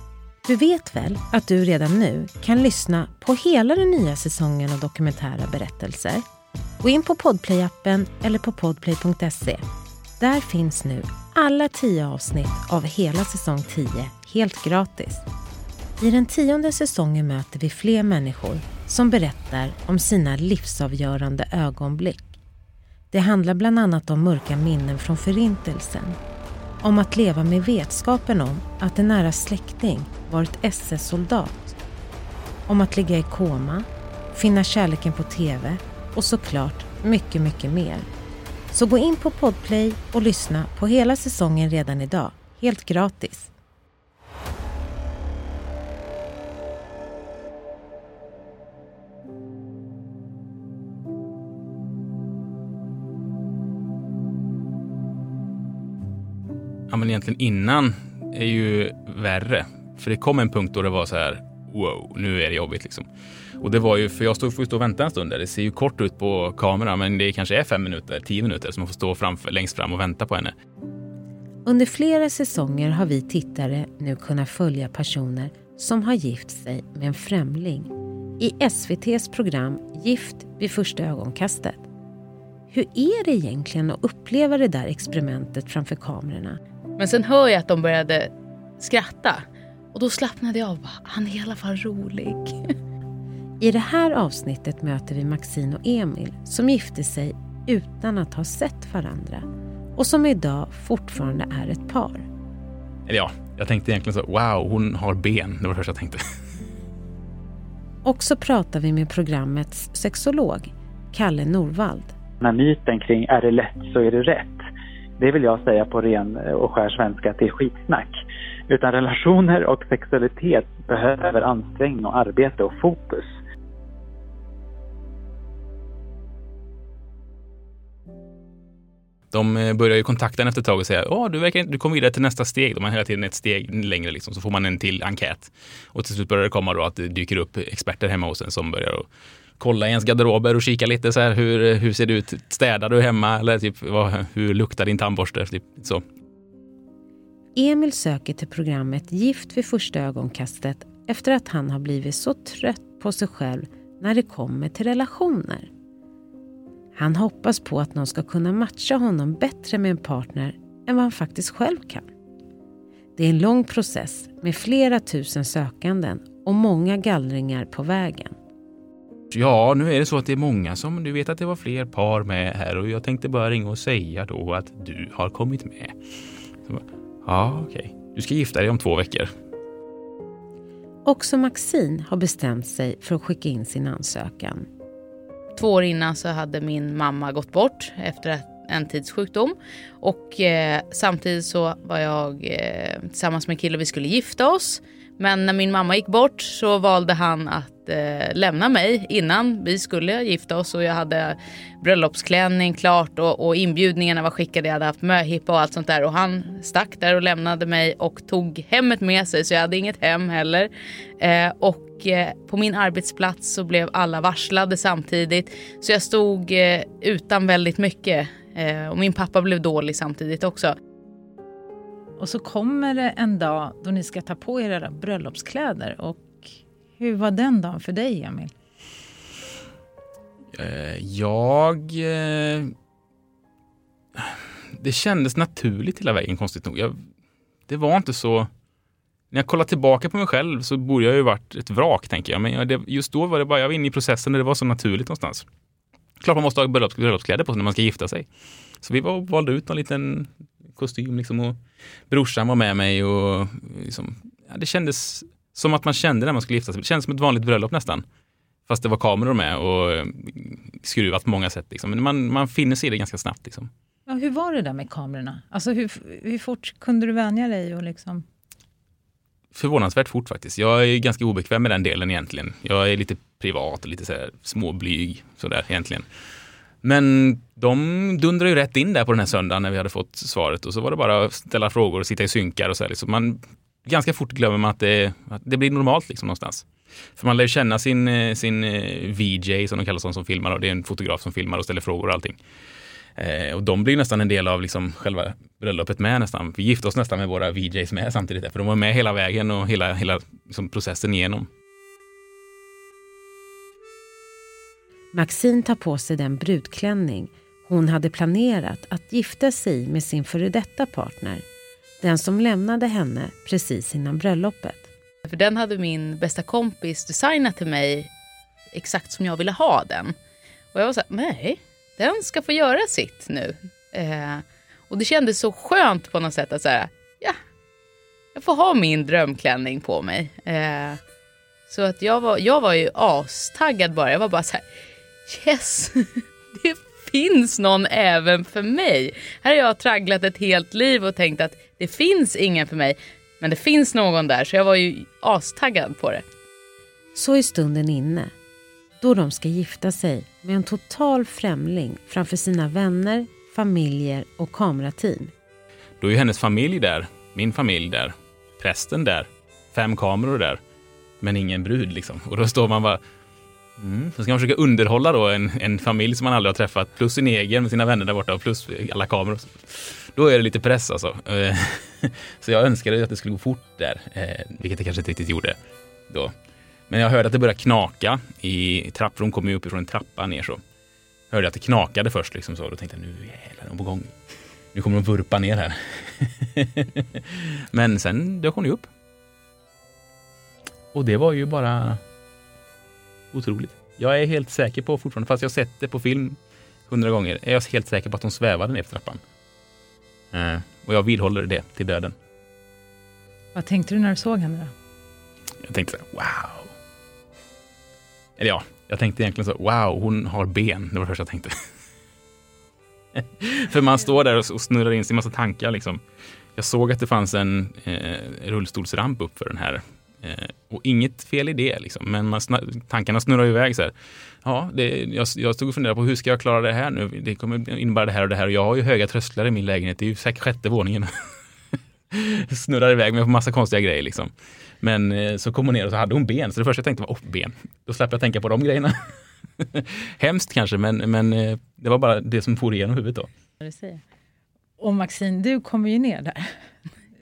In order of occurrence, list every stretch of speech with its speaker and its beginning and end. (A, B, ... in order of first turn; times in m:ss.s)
0:00.4-0:06.2 A
0:06.8-0:09.6 A
0:10.2-0:15.2 A
0:16.0-0:22.3 A
0:23.1-0:26.2 A
0:26.8-0:31.8 A
0:32.7-0:38.1 A
0:38.7-0:43.5 A
0:56.9-1:03.1 B
1:03.6-1:10.6 B
1:11.6-1:21.9 A
1:22.7-1:26.6 A
1:27.0-1:32.6 C
1:33.6-1:42.3 A
1:43.1-1:46.2 B
1:48.0-1:52.2 A
1:52.4-1:54.7 D
1:55.2-1:58.1 D
1:58.7-2:03.3 D
2:09.3-2:19.1 B
2:19.6-2:26.0 B
2:27.6-2:35.7 A
2:37.0-2:42.1 A
2:43.2-2:48.4 A
2:49.3-2:56.0 B
2:56.7-2:59.3 B
3:01.0-3:04.7 A
3:05.6-3:40.8 C
3:42.2-3:48.5 E
3:50.5-3:52.7 B
3:54.2-3:57.0 B
3:57.7-3:58.5 B
3:59.3-4:05.5 B
4:06.2-4:08.3 B
4:08.8-4:11.6 B
4:12.1-4:18.0 B
4:18.7-4:23.7 B
4:24.1-4:28.2 E
4:29.5-4:36.1 B
4:36.8-4:52.4 B
4:53.2-5:01.5 B
5:05.1-5:11.4 A
5:12.0-5:14.9 A
5:15.3-5:18.1 C
5:18.7-5:20.2 C
5:20.7-5:27.4 C
5:28.4-5:31.0 C
5:31.7-5:34.6 C
5:35.3-5:46.2 C
5:47.2-5:48.3 A
5:49.0-5:55.3 A
5:56.0-6:00.6 B
6:01.2-6:03.0 B
6:03.8-6:15.6 B
6:16.9-6:20.6 B
6:21.3-6:24.1 B
6:24.7-6:28.9 B
6:30.9-6:32.0 B
6:33.3-6:36.4 B
6:36.9-6:39.2 B
6:40.3-6:42.2 B
6:43.6-6:44.7 E
6:45.6-6:46.7 B
6:48.4-6:51.6 B
6:53.2-6:56.0 B
6:56.6-7:11.1 B
7:12.1-7:23.3 B
7:23.6-7:24.0 E
7:24.8-7:26.6 E